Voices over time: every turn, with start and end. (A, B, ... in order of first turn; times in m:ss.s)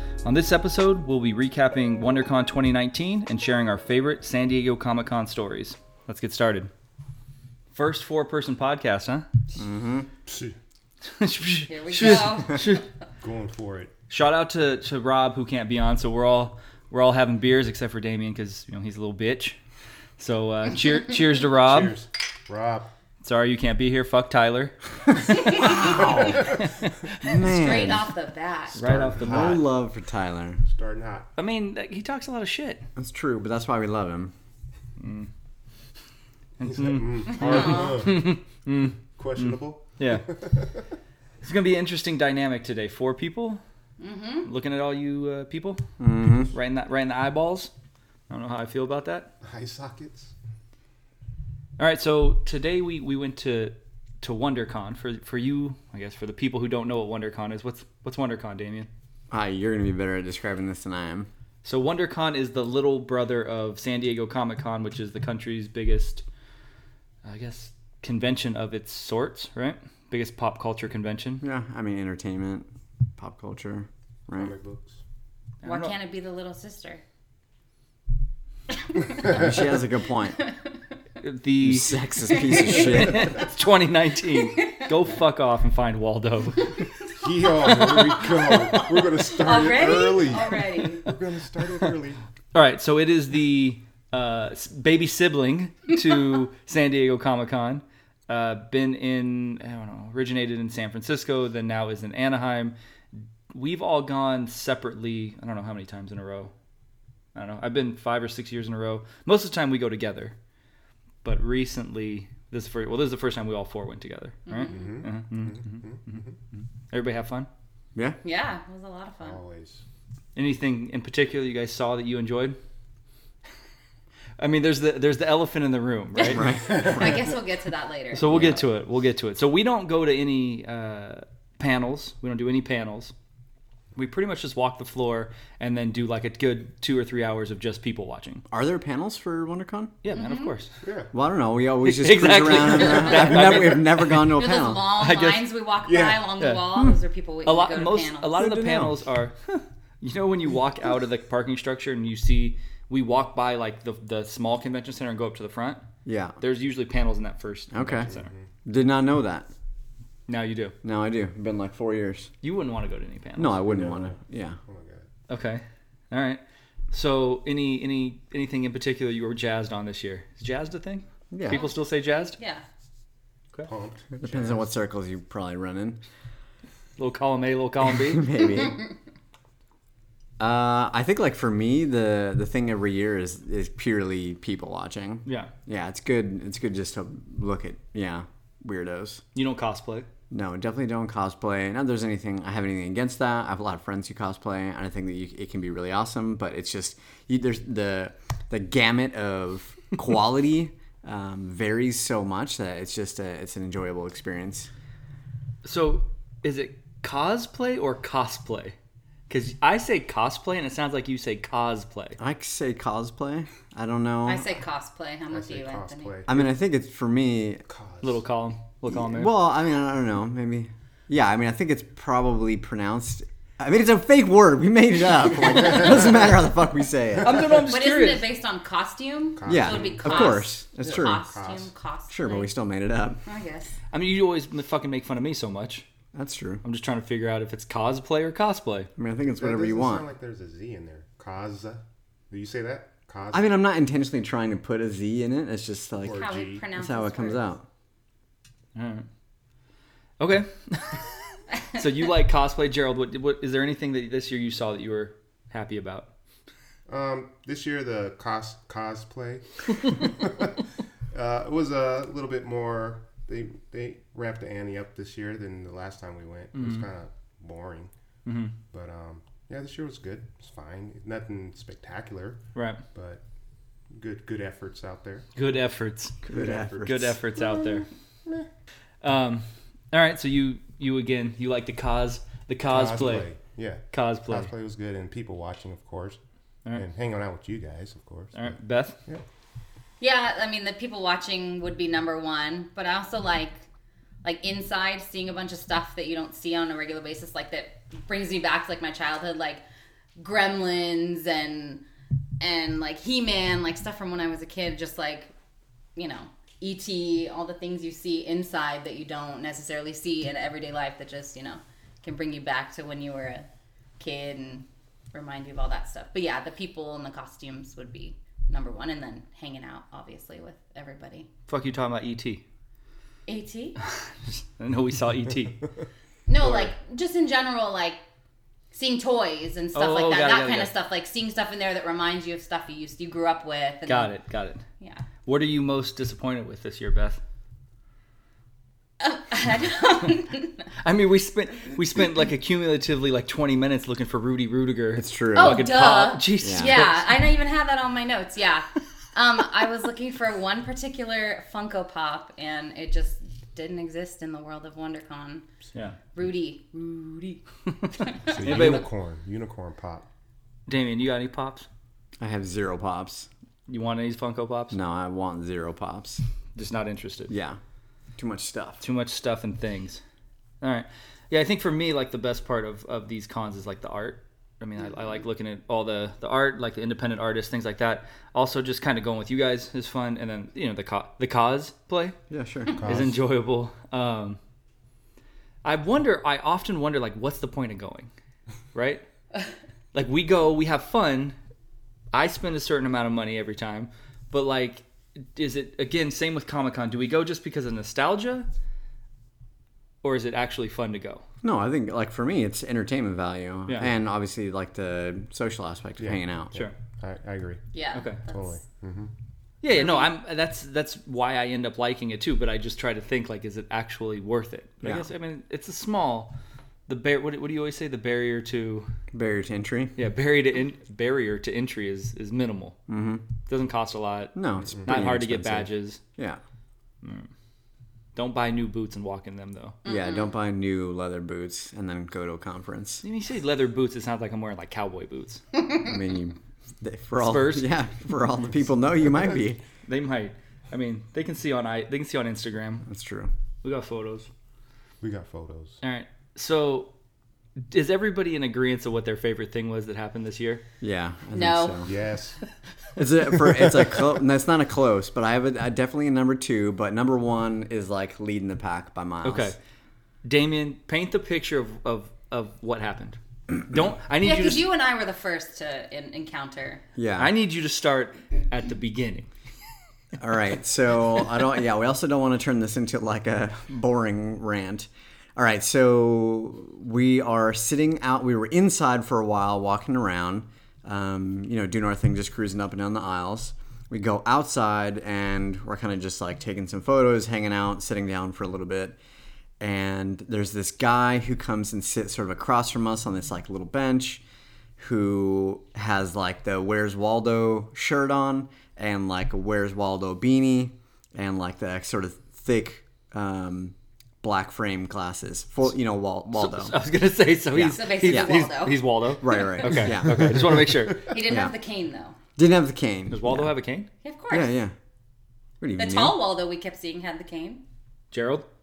0:00.2-0:06.7 A
0:07.7-0:09.2 A
0:09.6-0:10.1 B
0:10.2-0:10.5 C
0:11.2-0:12.8 A
0:11.6-0:12.7 D
0:13.2-0:13.9 C
0:14.1-0:19.6 A
0:20.2-0:21.9 A
0:21.5-0:22.9 C
0:23.2-0:24.7 A
0:25.3-0:26.9 A
0:25.3-0:26.1 D
0:25.8-0:26.5 C
0:27.2-0:28.1 B
0:27.2-0:28.8 D
0:28.8-0:29.6 A
0:28.8-0:29.6 C
0:29.0-0:30.6 B
0:30.6-0:31.3 C
0:31.4-0:32.8 A
0:33.0-0:34.3 B
0:35.0-0:35.3 A
0:36.6-0:40.2 A
0:36.6-0:38.4 C
0:37.4-0:38.1 D
0:39.2-0:40.8 C
0:41.4-0:43.6 A
0:44.0-0:44.5 D
0:44.4-0:45.8 A
0:46.0-0:46.5 B
0:46.4-0:47.7 A
0:48.3-0:49.3 A
0:49.4-0:50.3 C
0:51.8-0:58.9 A
0:59.3-1:01.3 B
1:01.6-1:06.2 A
1:07.2-1:11.4 A
1:11.4-1:14.5 B
1:14.3-1:15.0 C
1:15.6-1:15.9 A
1:15.6-1:17.0 D
1:19.2-1:19.4 C
1:19.2-1:20.4 B
1:21.2-1:21.9 A
1:21.6-1:23.4 B
1:22.3-1:23.2 D
1:22.6-1:26.8 A
1:27.1-1:32.2 C
1:29.2-1:31.1 D
1:32.5-1:42.7 A
1:43.5-1:46.5 A
1:47.3-1:50.3 A
1:51.2-1:57.5 A
1:54.5-1:55.0 D
1:54.7-1:56.3 C
1:58.2-1:59.4 D
1:59.2-1:59.8 C
2:00.4-2:02.6 A
2:04.4-2:06.5 A
2:06.2-2:08.5 D
2:06.3-2:07.2 B
2:06.7-2:07.1 C
2:08.1-2:13.1 A
2:08.3-2:08.6 B
2:13.9-2:18.4 A
2:18.5-2:19.9 B
2:20.0-2:20.7 A
2:20.1-2:20.5 D
2:20.8-2:21.1 C
2:21.1-2:24.9 B
2:21.8-2:24.2 A
2:23.1-2:28.3 D
2:25.0-2:25.5 A
2:25.8-2:26.3 C
2:26.4-2:26.9 A
2:27.4-2:35.8 A
2:28.4-2:28.9 B
2:36.0-2:36.4 B
2:36.4-2:38.3 A
2:37.7-2:38.1 B
2:38.0-2:38.4 C
2:38.6-2:39.5 B
2:40.3-2:40.7 A
2:40.8-2:42.3 B
2:42.4-2:43.6 A
2:43.4-2:44.6 B
2:43.6-2:45.1 C
2:45.3-2:46.4 A
2:46.9-2:52.4 A
2:51.3-2:51.6 B
2:52.4-2:52.6 D
2:53.6-2:54.6 C
2:54.2-2:56.0 B
2:57.0-2:58.3 A
2:57.9-2:58.9 B
3:00.4-3:09.2 B
3:05.2-3:05.5 A
3:09.3-3:10.1 A
3:10.3-3:24.7 B
3:25.6-3:28.7 A
3:29.3-3:32.2 A
3:32.2-3:34.4 B
3:34.2-3:36.2 D
3:35.3-3:36.5 C
3:36.3-3:37.6 B
3:37.7-3:38.2 C
3:38.0-3:39.3 A
3:38.9-3:47.5 B
3:47.2-3:48.2 A
3:47.6-3:52.5 D
3:49.4-3:51.7 C
3:49.4-3:51.2 B
3:52.1-3:53.2 B
3:53.2-3:53.8 D
3:53.9-3:55.8 A
3:56.1-3:56.6 B
3:56.6-3:58.9 A
3:59.0-4:00.0 B
3:59.2-4:03.5 C
4:03.3-4:07.6 B
4:06.0-4:06.7 C
4:06.2-4:07.4 D
4:08.7-4:09.0 A
4:10.2-4:11.0 A
4:11.7-4:16.1 A
4:16.9-4:20.6 C
4:21.1-4:27.9 C
4:26.5-4:26.8 A
4:28.2-4:28.5 A
4:28.7-4:32.4 C
4:32.5-4:32.8 A
4:32.9-4:33.2 C
4:33.9-4:35.3 C
4:35.4-4:37.9 A
4:36.3-4:37.1 B
4:36.3-4:37.6 C
4:39.0-4:43.3 A
4:42.7-4:46.2 C
4:43.9-4:44.5 A
4:46.7-4:48.4 C
4:48.3-4:49.0 A
4:50.0-4:53.6 D
4:54.2-4:59.6 D
5:00.2-5:01.8 D
5:02.4-5:05.3 D
5:06.0-5:13.4 D
5:14.0-5:21.3 D
5:21.5-5:22.4 A
5:23.3-5:23.8 D
5:24.3-5:25.7 A
5:26.3-5:28.0 D
5:26.4-5:26.7 C
5:28.7-5:34.1 D
5:29.7-5:30.7 A
5:33.9-5:34.6 A
5:34.8-5:35.0 D
5:35.2-5:37.2 A
5:39.0-5:40.6 D
5:40.8-5:47.0 A
5:44.9-5:45.7 B
5:45.3-5:55.4 D
5:46.4-5:46.8 B
5:56.1-5:57.4 D
5:58.0-5:58.8 D
5:58.2-6:00.0 C
5:58.4-5:58.8 A
6:00.7-6:01.7 A
6:02.2-6:03.3 B
6:03.7-6:04.8 A
6:04.7-6:06.2 B
6:06.6-6:07.3 A
6:07.3-6:07.6 B
6:08.2-6:08.8 B
6:08.8-6:10.0 A
6:10.6-6:22.2 A
6:22.3-6:22.8 B
6:22.8-6:23.2 C
6:22.8-6:24.4 A
6:25.6-6:28.1 A
6:28.7-6:29.0 A
6:29.9-6:31.3 A
6:32.1-6:38.5 A
6:40.0-6:41.2 A
6:41.4-6:46.5 B
6:46.0-6:47.6 C
6:47.7-6:48.5 D
6:47.9-6:48.2 A
6:48.3-6:49.1 C
6:49.6-6:56.3 A
6:49.7-6:50.1 D
6:54.8-6:55.1 B
6:56.9-6:58.9 A
6:59.1-6:59.9 B
7:00.0-7:02.8 A
7:02.9-7:03.2 B
7:03.5-7:04.3 A
7:04.3-7:06.4 B
7:04.7-7:04.9 C
7:04.8-7:06.0 A
7:07.0-7:07.3 A
7:08.1-7:09.8 A
7:09.8-7:10.3 D
7:09.8-7:13.0 B
7:13.0-7:15.4 A
7:15.7-7:19.6 B
7:17.2-7:17.6 A
7:19.8-7:22.8 A
7:22.8-7:23.3 B
7:23.6-7:24.3 A
7:25.0-7:25.8 C
7:25.8-7:26.9 A
7:27.7-7:30.6 A
7:30.8-7:31.9 B
7:31.3-7:31.8 D
7:31.8-7:32.4 C
7:33.0-7:39.6 B
7:39.2-7:39.6 A
7:40.2-7:44.6 A
7:44.2-7:46.8 D
7:47.0-7:47.3 B
7:47.2-7:49.3 A
7:50.2-8:09.0 B
8:09.6-8:14.2 B
8:14.8-8:26.7 B
8:26.3-8:31.1 A
8:27.5-8:28.4 B
8:27.6-8:28.9 D
8:29.2-8:30.6 B
8:30.1-8:31.0 C
8:31.0-8:32.2 D
8:31.2-8:31.5 B
8:32.4-8:33.5 B
8:33.1-8:33.9 A
8:34.0-8:34.6 D
8:34.3-8:34.7 B
8:35.6-8:36.2 B
8:35.8-8:37.6 D
8:38.1-8:38.4 A